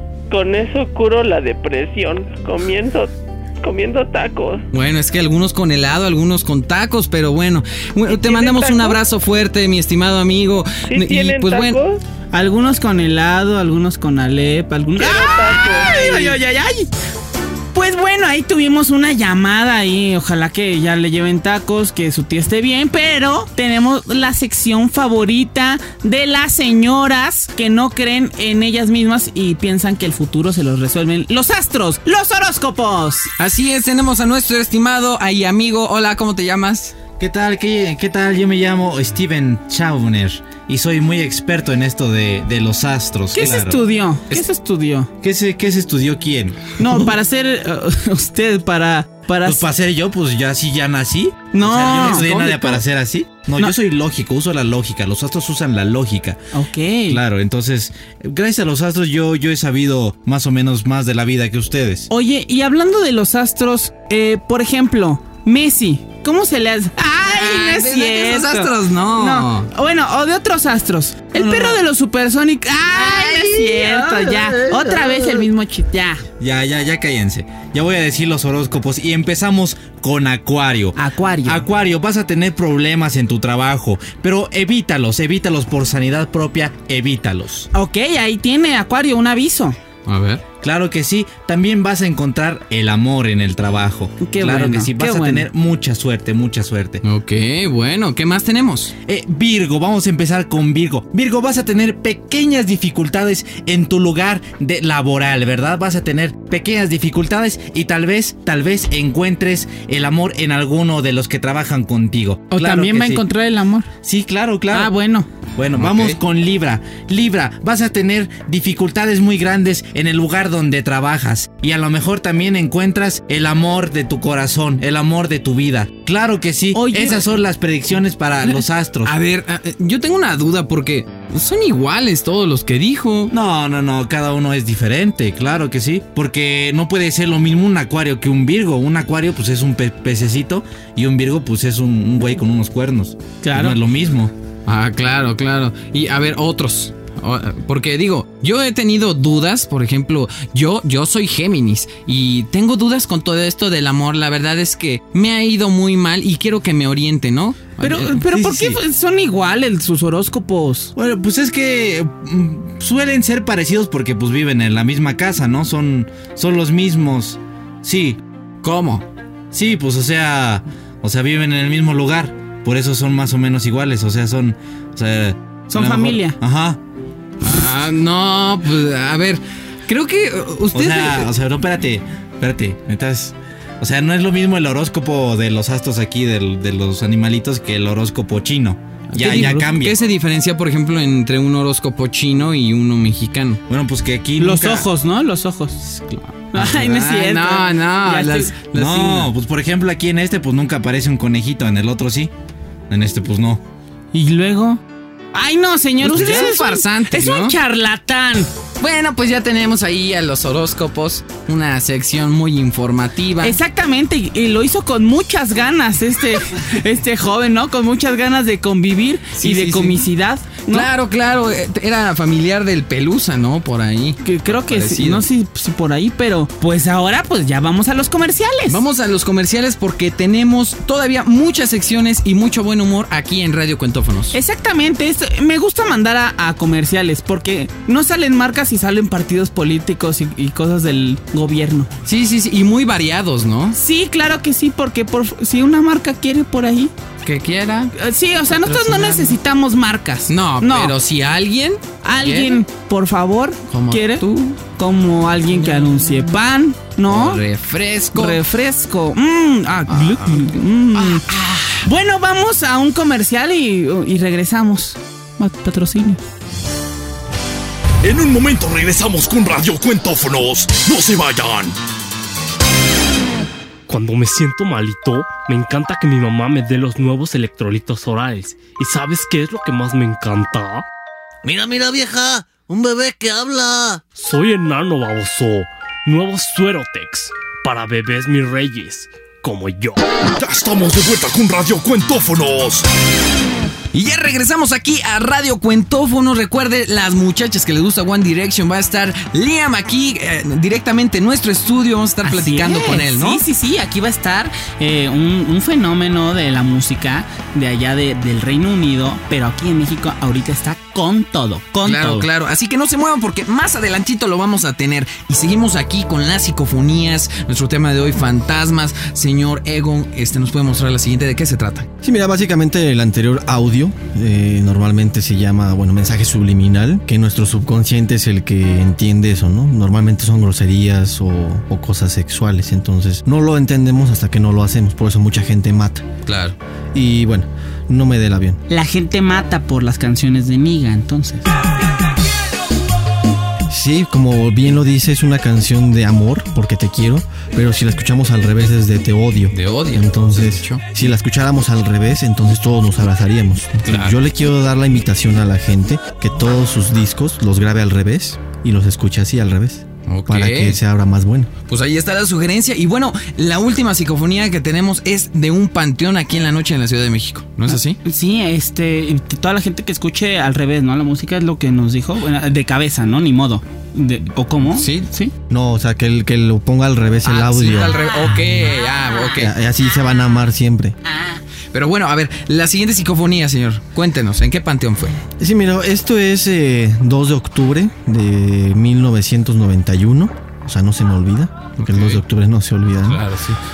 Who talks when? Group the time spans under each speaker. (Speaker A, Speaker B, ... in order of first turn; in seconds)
Speaker A: 0.3-4.6, 8.1-9.0, 10.9-12.0, 14.9-16.4
Speaker B: 4.7-11.8, 33.4-36.9, 67.2-69.7, 71.4-71.7, 72.9-75.0, 90.0-90.4, 97.0-98.9, 115.8-116.2, 129.0-133.3, 144.7-158.3, 168.6-169.1, 177.4-181.3, 189.1-193.6, 196.5-199.2, 206.0-207.6, 208.8-213.6, 219.3-220.1, 220.7-225.2, 228.7-234.3, 242.0-243.8, 247.2-247.9, 248.5-249.4, 250.3-252.6, 253.7-254.4, 257.1-258.4, 259.9-261.8, 293.9-303.4, 311.8-321.9, 336.2-336.6, 349.5-350.8, 353.9-354.2, 360.1-360.8, 361.7-368.0, 374.7-375.1, 377.2-379.5, 381.7-385.2, 391.8-392.2, 393.1-393.6
Speaker C: 12.3-16.9, 17.7-33.3, 43.3-45.1, 46.8-49.6, 51.5-52.8, 56.5-57.2, 62.1-76.2, 80.9-81.6, 87.7-89.8, 94.2-95.5, 112.5-113.9, 114.7-115.3, 126.7-127.2, 143.4-143.8, 157.8-160.9, 175.7-176.4, 189.1-189.7, 194.4-198.9, 204.1-204.8, 205.3-208.5, 213.4-220.9, 224.2-228.8, 234.3-241.9, 243.7-246.9, 247.9-250.9, 252.0-257.4, 258.1-261.2, 261.8-266.2, 302.2-312.2, 338.7-341.6, 367.7-375.3
Speaker D: 37.2-43.8, 45.2-46.7, 49.4-56.4, 57.1-62.1, 76.4-87.7, 90.6-97.0, 99.0-113.2, 114.0-114.9, 115.6-129.1, 133.3-144.3, 158.3-158.8, 160.9-168.2, 169.5-176.8, 180.7-190.0, 193.7-194.9, 198.7-202.3, 202.9-203.6
Speaker E: 268.0-271.8, 290.4-292.8
Speaker F: 273.9-280.8, 284.1-290.0
Speaker G: 281.4-284.1
Speaker H: 322.0-336.1, 336.9-338.6, 343.7-361.5, 375.5-378.0, 379.4-380.9, 385.4-393.2